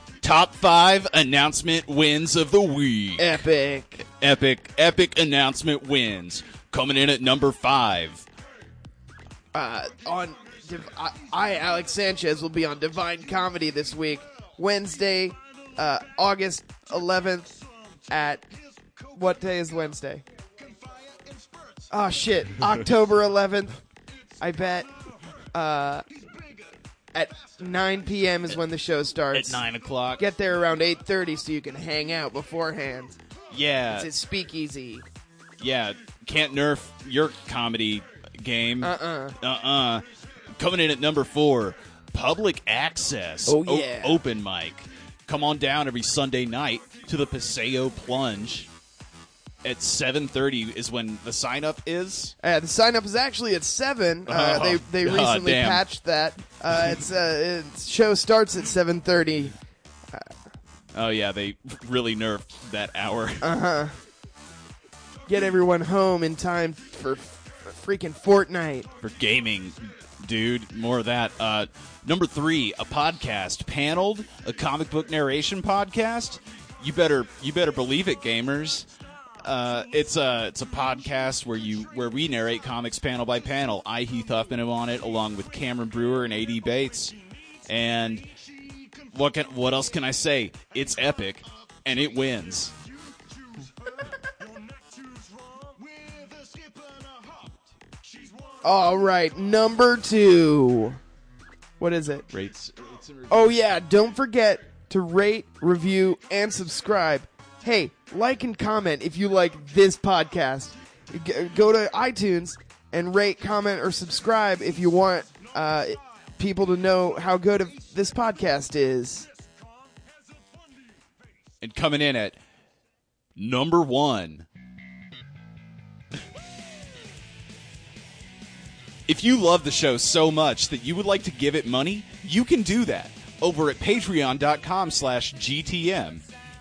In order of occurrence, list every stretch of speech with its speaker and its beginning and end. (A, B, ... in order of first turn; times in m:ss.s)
0:00.2-0:03.4 A
0:03.2-0:04.0 B
0:04.1-0:08.2 A
0:09.5-0:18.4 B
0:19.1-0:20.2 B
0:21.9-0:23.8 B
0:24.4-0:24.9 B
0:25.5-0:26.1 B
0:27.1-0:29.6 B
0:29.3-0:30.2 A
0:30.2-0:33.2 B
0:33.5-0:34.1 A
0:33.8-0:35.0 B
0:35.6-0:40.0 A
0:38.8-0:39.4 B
0:40.6-0:48.7 A
0:43.4-0:44.2 B
0:49.6-0:52.3 A
0:52.4-0:59.6 B
0:54.3-0:55.8 A
1:00.9-1:03.5 A
1:03.4-1:04.0 B
1:05.3-1:08.9 B
1:09.0-1:18.9 A
1:19.4-1:27.2 A
1:27.7-1:28.3 A
1:29.1-1:32.8 A
1:38.6-1:41.0 B
1:41.8-1:42.3 B
1:42.3-1:43.5 A
1:43.3-1:59.3 B
2:01.6-2:02.4 A
2:03.4-2:04.4 A
2:09.1-2:16.2 A